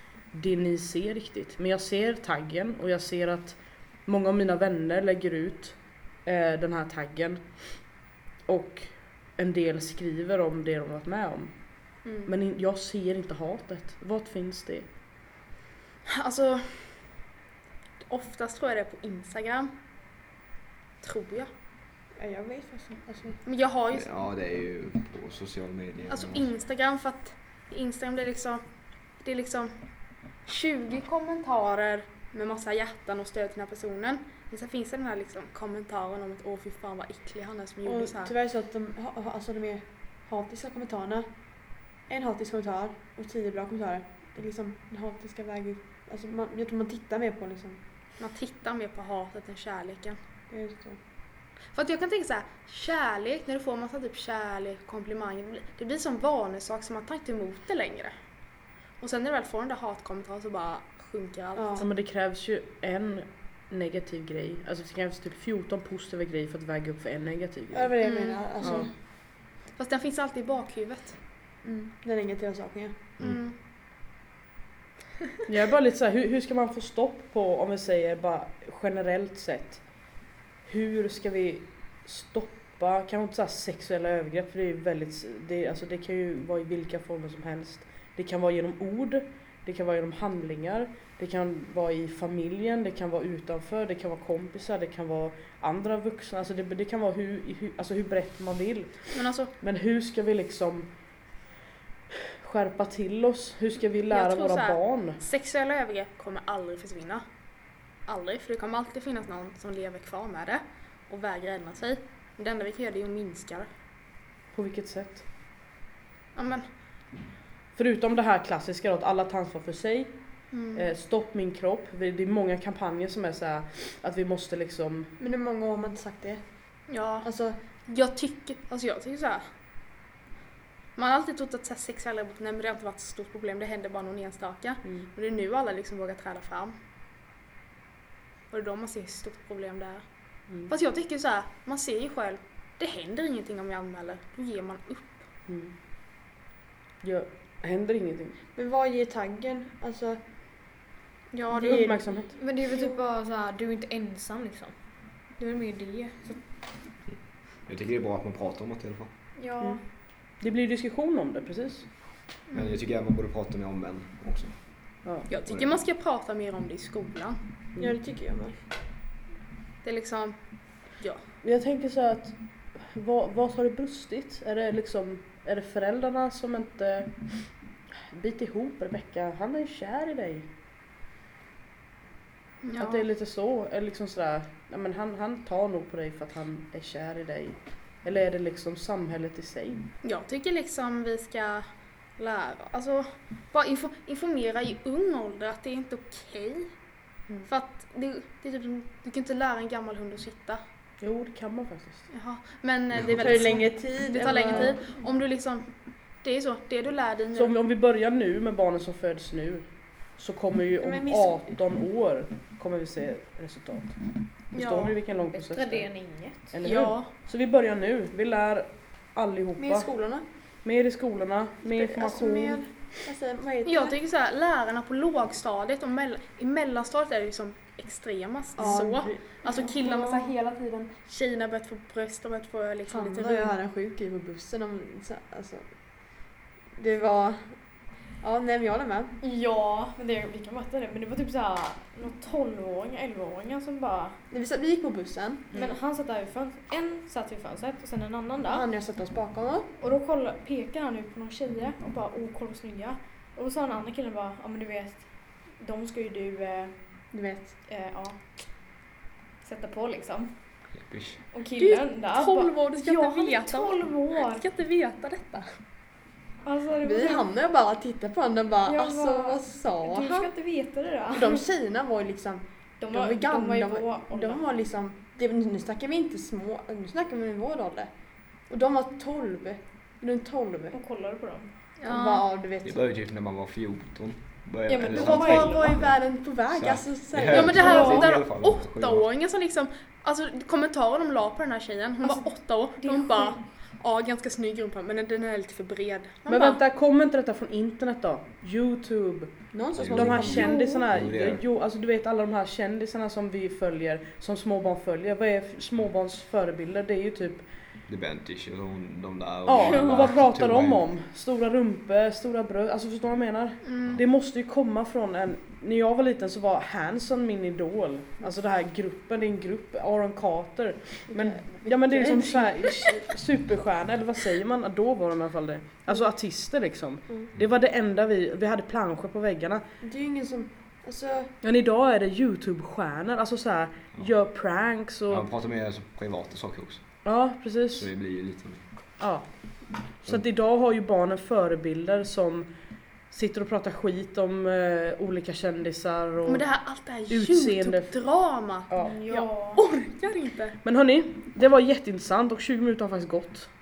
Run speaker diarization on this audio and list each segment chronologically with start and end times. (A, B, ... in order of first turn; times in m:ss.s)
0:00.3-0:07.8 A
0:08.5-0:14.9 A
0:12.0-0:12.3 B
0:16.1-0:17.0 B
0:18.1-0:19.7 B
0:21.0-0:21.5 B
0:22.2-0:23.4 C
0:23.4-0:24.1 B
0:23.9-0:26.5 D
0:26.1-0:28.6 B
0:29.2-0:29.7 B
0:30.4-0:38.3 B
0:37.8-0:41.3 C
0:42.1-0:47.8 C
0:48.2-0:50.2 B
0:50.5-0:51.0 C
0:51.7-0:58.1 B
0:59.0-1:01.9 B
1:01.6-1:01.9 C
1:01.8-1:08.0 A
1:07.7-1:08.9 C
1:08.0-1:08.9 B
1:08.6-1:08.9 A
1:09.8-1:11.2 B
1:11.6-1:13.0 C
1:13.2-1:13.6 B
1:15.5-1:19.8 A
1:20.6-1:40.9 A
1:39.1-1:39.5 B
1:42.4-1:45.2 A
1:44.1-1:47.2 B
1:48.1-1:53.7 B
1:54.5-1:55.2 A
1:56.4-1:56.6 B
1:57.8-2:05.1 A
2:00.5-2:00.9 B
2:05.2-2:06.4 C
2:06.9-2:07.3 B
2:07.2-2:07.6 C
2:07.9-2:09.4 B
2:11.0-2:16.7 B
2:18.5-2:20.0 B
2:20.7-2:25.2 B
2:25.5-2:25.8 A
2:27.0-2:28.4 A
2:28.5-2:30.2 C
2:31.3-2:31.8 B
2:31.5-2:32.4 A
2:31.6-2:32.1 C
2:32.3-2:34.7 E
2:32.7-2:32.9 C
2:35.4-2:36.4 E
2:37.7-2:39.1 D
2:39.4-2:39.8 E
2:40.4-2:41.9 A
2:42.5-2:42.8 B
2:42.5-2:44.5 D
2:45.0-2:45.3 A
2:45.3-2:47.4 B
2:45.5-2:45.8 D
2:47.8-2:48.5 C
2:49.8-2:50.4 B
2:51.4-2:57.5 A
2:58.1-3:00.5 A
3:02.6-3:03.1 B
3:02.8-3:09.9 A
3:10.0-3:11.7 B
3:12.2-3:16.7 B
3:17.5-3:20.6 B
3:21.0-3:22.0 A
3:22.1-3:25.7 B
3:23.2-3:24.8 C
3:26.2-3:27.6 B
3:27.4-3:39.9 A
3:30.8-3:31.5 C
3:34.5-3:35.0 B
3:35.3-3:36.6 E
3:36.6-3:37.1 B
3:39.6-3:40.2 C
3:40.6-3:42.6 A
3:41.6-3:44.0 C
3:43.7-3:53.5 B
3:48.6-3:50.2 C
3:52.9-3:55.6 C
3:56.8-3:57.5 C
3:58.2-3:59.2 C
3:59.2-4:04.2 E
4:04.3-4:05.5 C
4:05.5-4:08.6 E
4:08.4-4:09.7 C
4:09.8-4:16.8 E
4:17.1-4:17.5 C
4:17.7-4:18.4 E
4:19.4-4:20.4 E
4:20.7-4:21.2 D
4:21.3-4:24.4 E
4:21.6-4:25.5 B
4:26.4-4:27.3 E
4:26.8-4:30.3 C
4:28.7-4:31.4 E
4:31.1-4:37.9 C
4:32.8-4:34.4 E
4:38.5-4:40.8 C
4:40.7-4:41.5 E
4:41.8-4:42.2 B
4:41.9-4:42.8 C
4:42.6-4:49.1 D
4:44.7-4:45.9 E
4:44.9-4:48.0 C
4:47.3-4:56.6 B
4:47.7-4:48.2 E
4:52.8-4:53.4 E
4:56.3-4:59.3 A
4:59.5-5:00.5 C
4:59.8-5:01.4 D
4:59.9-5:07.4 A
5:00.3-5:00.9 E
5:07.9-5:10.9 D
5:09.5-5:29.6 A
5:09.7-5:10.1 E
5:13.6-5:14.0 B
5:21.1-5:23.1 C
5:29.8-5:31.3 C
5:31.4-5:35.3 A
5:35.1-5:36.8 D
5:37.0-5:37.9 A
5:37.8-5:38.6 D
5:39.0-5:42.5 A
5:43.1-5:46.5 A
5:46.2-5:50.6 B
5:47.0-5:48.0 A
5:48.7-5:49.0 A
5:48.8-5:49.6 E
5:50.6-5:53.5 A